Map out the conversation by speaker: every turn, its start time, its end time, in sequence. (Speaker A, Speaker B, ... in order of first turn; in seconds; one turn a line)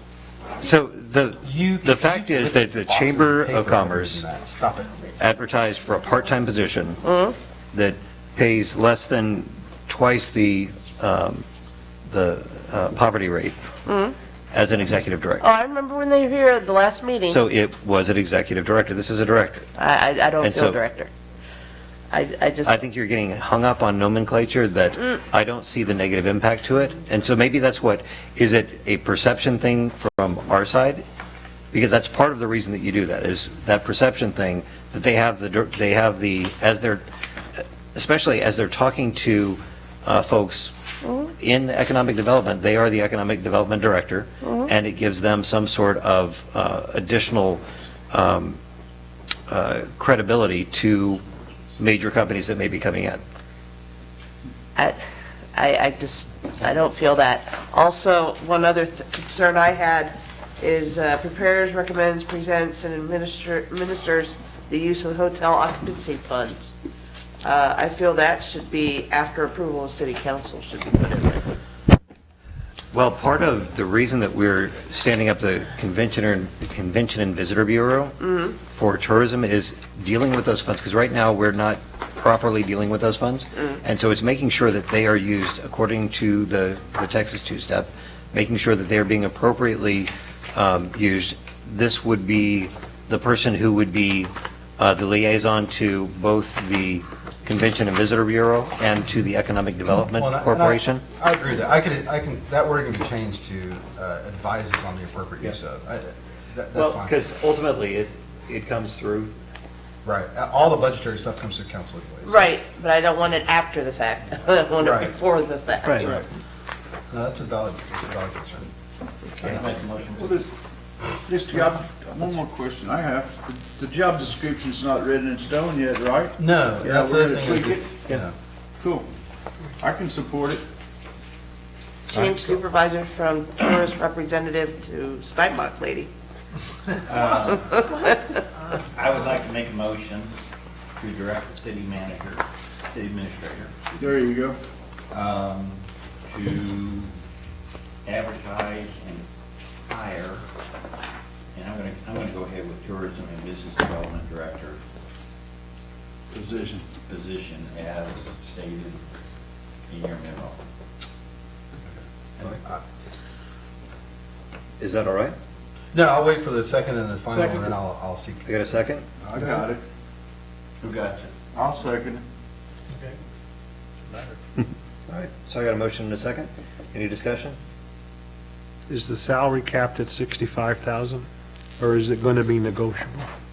Speaker A: 0.6-4.2
Speaker B: 1.4-5.0
Speaker A: 5.2-7.0
Speaker C: 7.0-7.4
Speaker A: 7.7-11.4
Speaker A: 12.1-13.6
Speaker C: 13.8-14.2
Speaker A: 14.5-15.4
Speaker C: 15.4-17.4
Speaker A: 17.3-19.7
Speaker C: 19.7-21.1
Speaker A: 20.4-20.8
Speaker C: 22.1-22.8
Speaker A: 22.6-31.0
Speaker A: 31.7-37.0
Speaker A: 37.6-40.7
Speaker C: 41.0-41.3
Speaker A: 41.4-48.6
Speaker C: 44.4-44.7
Speaker A: 49.5-51.2
Speaker A: 51.8-53.2
Speaker C: 54.8-66.8
Speaker C: 67.4-71.5
Speaker A: 72.9-78.2
Speaker C: 78.2-78.6
Speaker A: 78.7-101.0
Speaker B: 100.1-107.2
Speaker A: 106.7-109.3
Speaker B: 110.0-112.5
Speaker C: 112.2-116.2
Speaker B: 114.8-115.1
Speaker B: 117.1-118.7
Speaker C: 119.3-119.7
Speaker D: 119.4-120.5
Speaker B: 119.4-119.7
Speaker E: 120.1-120.5
Speaker E: 121.2-127.9
Speaker B: 126.4-128.3
Speaker E: 128.8-129.1
Speaker E: 129.8-130.6
Speaker C: 132.1-136.1
Speaker B: 132.1-132.6
Speaker D: 137.1-137.9
Speaker C: 137.7-138.2
Speaker D: 138.9-140.4
Speaker D: 141.0-143.9
Speaker E: 143.9-144.6
Speaker D: 145.1-147.1
Speaker D: 148.0-149.2
Speaker D: 149.9-150.4
Speaker D: 151.5-154.8
Speaker E: 156.3-156.8
Speaker D: 157.1-159.0
Speaker D: 159.9-160.6
Speaker B: 161.8-162.8
Speaker A: 164.8-165.3
Speaker B: 165.9-169.6
Speaker A: 168.5-169.1
Speaker E: 169.3-169.8
Speaker D: 170.8-171.3
Speaker E: 171.5-172.2
Speaker A: 175.1-177.6
Speaker F: 178.9-181.3
Speaker F: 181.8-183.3